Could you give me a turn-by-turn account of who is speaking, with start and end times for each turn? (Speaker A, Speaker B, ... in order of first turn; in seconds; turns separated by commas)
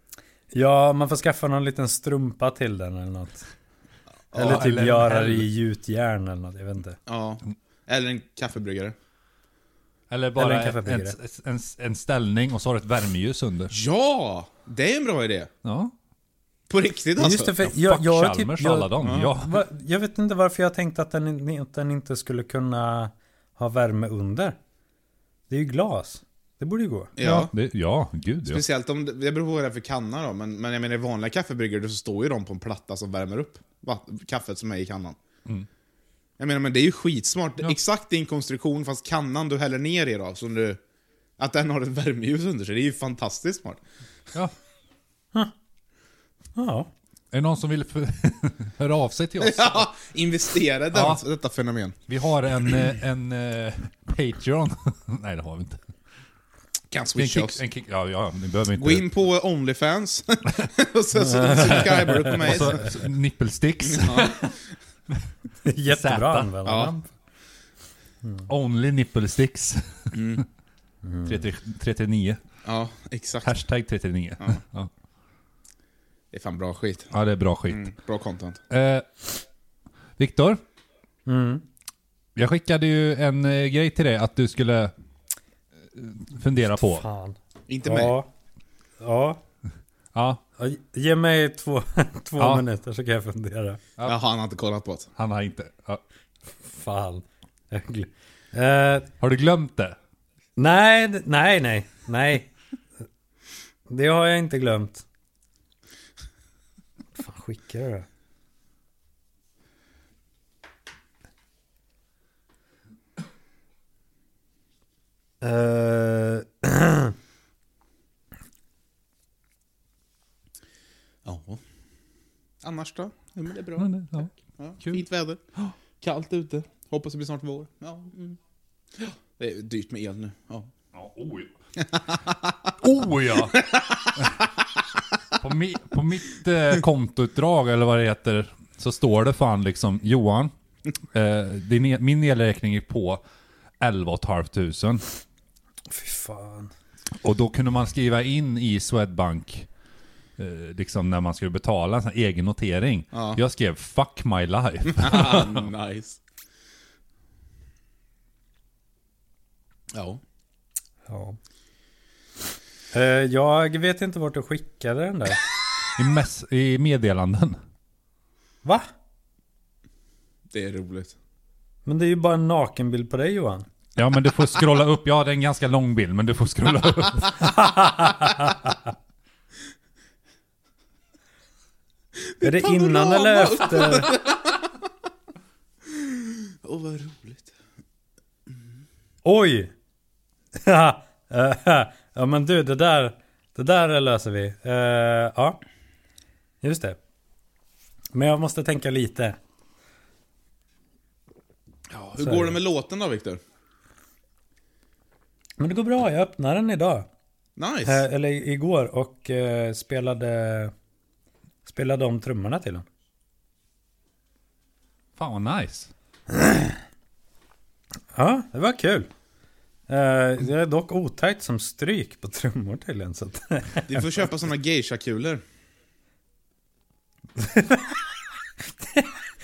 Speaker A: 0.5-3.5, Speaker B: 4.3-4.6, Speaker A: 4.3-7.0, Speaker C: 4.4-5.5, Speaker B: 7.1-8.9, Speaker C: 10.1-13.7, Speaker A: 10.4-11.2, Speaker B: 13.7-15.5, Speaker C: 15.6-15.9, Speaker B: 16.7-17.5, Speaker A: 17.2-24.6, Speaker C: 17.6-19.6, Speaker B: 19.0-19.3, Speaker A: 25.5-27.5, Speaker B: 27.2-27.5, Speaker C: 27.3-28.6, Speaker B: 28.4-35.2, Speaker B: 36.4-40.8, Speaker B: 41.4-43.8, Speaker A: 46.5-46.9, Speaker C: 47.3-49.9, Speaker B: 49.4-52.0, Speaker C: 50.9-51.2, Speaker C: 52.1-55.8, Speaker B: 56.9-57.6, Speaker C: 57.1-59.1, Speaker B: 58.8-63.0, Speaker A: 61.2-62.4, Speaker C: 61.6-64.5, Speaker B: 63.8-64.5, Speaker A: 65.6-67.1, Speaker C: 65.9-66.5, Speaker B: 66.6-66.9, Speaker C: 68.5-70.4, Speaker B: 70.1-70.4, Speaker A: 71.0-71.4, Speaker C: 71.2-72.4, Speaker B: 72.6-73.5, Speaker C: 73.4-74.9, Speaker B: 76.3-77.1, Speaker C: 77.1-77.8, Speaker B: 77.7-78.6, Speaker C: 78.7-79.2, Speaker C: 80.2-80.6, Speaker A: 81.2-81.6, Speaker C: 82.3-84.9, Speaker C: 85.9-87.0, Speaker A: 86.7-88.3, Speaker B: 87.7-88.2, Speaker A: 89.0-89.4, Speaker C: 90.1-90.4, Speaker A: 90.6-93.8, Speaker C: 92.4-92.6, Speaker B: 94.0-95.1, Speaker C: 95.2-96.0, Speaker A: 96.6-99.1, Speaker C: 99.2-100.0, Speaker A: 100.6-102.5, Speaker A: 103.9-105.0, Speaker A: 107.1-108.1, Speaker A: 115.4-117.1, Speaker B: 121.2-121.6, Speaker B: 122.6-125.4, Speaker C: 123.8-125.0, Speaker B: 126.0-128.4, Speaker B: 128.9-130.7, Speaker C: 130.9-131.5, Speaker B: 131.9-132.3, Speaker C: 132.8-133.6, Speaker B: 133.5-134.1, Speaker C: 135.4-140.5, Speaker C: 141.1-143.2, Speaker C: 143.8-145.0, Speaker A: 145.9-146.7, Speaker C: 147.2-149.7, Speaker C: 150.4-155.7, Speaker B: 153.1-153.4, Speaker B: 154.9-156.2, Speaker B: 159.9-160.2, Speaker A: 161.1-161.4, Speaker A: 162.9-165.4, Speaker C: 165.9-167.6, Speaker B: 170.5-171.1, Speaker A: 171.8-173.7, Speaker C: 173.9-177.6, Speaker A: 177.4-178.5, Speaker B: 182.2-184.6, Speaker A: 182.4-184.2, Speaker B: 185.9-187.5, Speaker A: 189.2-189.7, Speaker A: 190.6-195.6, Speaker A: 196.6-197.0, Speaker A: 198.1-199.4, Speaker B: 201.9-203.4, Speaker A: 202.2-202.6, Speaker A: 205.6-207.1, Speaker B: 207.6-208.0, Speaker A: 207.9-210.7, Speaker A: 211.7-212.8, Speaker C: 215.2-215.9, Speaker A: 216.3-216.7, Speaker A: 218.1-219.1, Speaker A: 219.9-224.2, Speaker B: 223.9-225.4, Speaker A: 227.4-228.0, Speaker A: 228.8-229.1